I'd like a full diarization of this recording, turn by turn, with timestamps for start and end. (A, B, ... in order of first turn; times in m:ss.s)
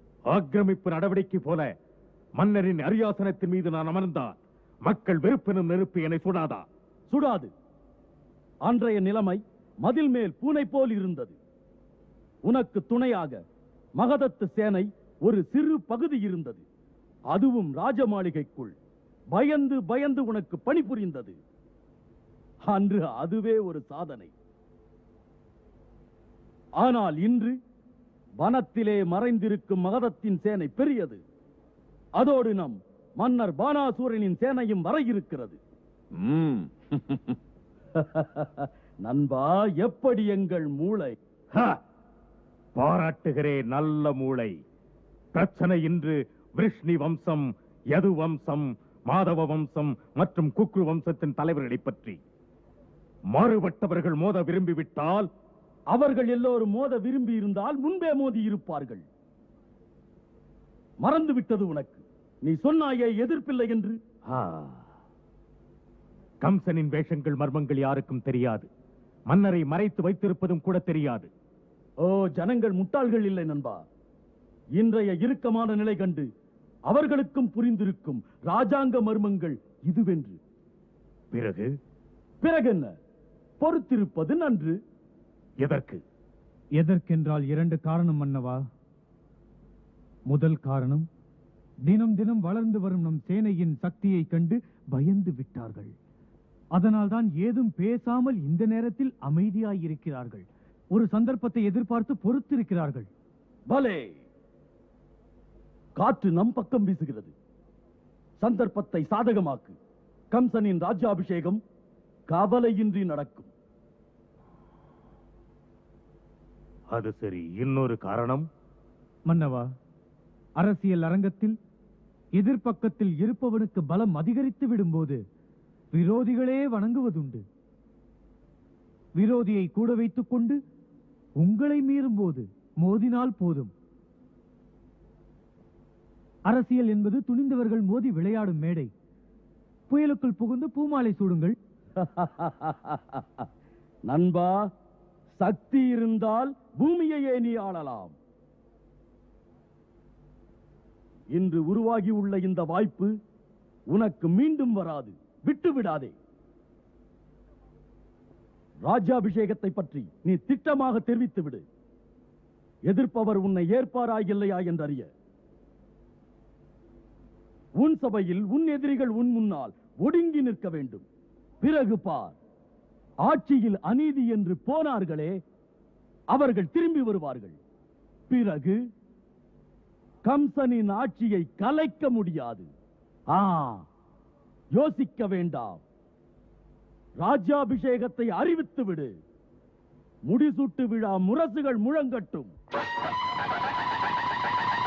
0:00.3-0:01.7 A
0:02.4-0:06.7 A
0:07.1-0:07.5 B
0:08.6-0:11.4 B
0:12.5-0:13.4 B
0:14.0-0:16.6 B
0:17.3-0:18.8 B
0:19.3-0:21.4 B
0:22.6-0:24.3 B
0:26.8-0:27.5 B
0:28.4-0:31.2 B
0:32.2-0:35.6 B
0:38.0-0:41.2 B
0:42.8-0:44.5 A
0:45.3-0:52.2 A
0:53.3-0:55.3 A
0:55.9-0:59.1 B
1:01.0-1:04.0 B
1:04.3-1:04.8 A
1:06.4-1:08.7 A
1:09.3-1:11.3 A
1:12.0-1:13.8 B
1:14.8-1:16.3 B
1:16.9-1:20.4 B
1:21.3-1:21.7 A
1:22.4-1:22.9 B
1:23.6-1:24.8 B
1:25.6-1:26.0 A
1:26.8-1:28.6 C
1:30.3-1:31.1 C
1:31.9-1:35.9 C
1:36.8-1:43.1 C
1:43.7-1:44.2 B
1:46.0-1:47.3 B
1:48.4-1:49.8 B
1:50.3-1:51.6 B
1:52.3-1:53.5 B
1:56.9-1:58.4 A
1:59.3-1:59.7 C
2:00.6-2:01.6 C
2:02.4-2:05.2 C
2:06.0-2:07.4 C
2:09.2-2:10.6 C
2:11.4-2:13.7 C
2:16.5-2:18.9 C
2:20.0-2:21.5 C
2:22.0-2:23.4 B
2:24.1-2:24.7 B
2:25.4-2:28.2 B
2:31.3-2:33.1 B
2:33.9-2:36.2 B
2:38.9-2:41.6 B
2:42.9-2:45.1 B
2:47.8-2:51.1 B
2:51.6-2:52.4 B
2:53.3-2:55.4 B
2:56.3-2:57.6 B
2:58.3-2:58.8 B
3:00.3-3:02.7 B
3:03.3-3:03.8 B
3:04.8-3:05.8 B
3:07.2-3:09.1 B
3:10.3-3:12.5 B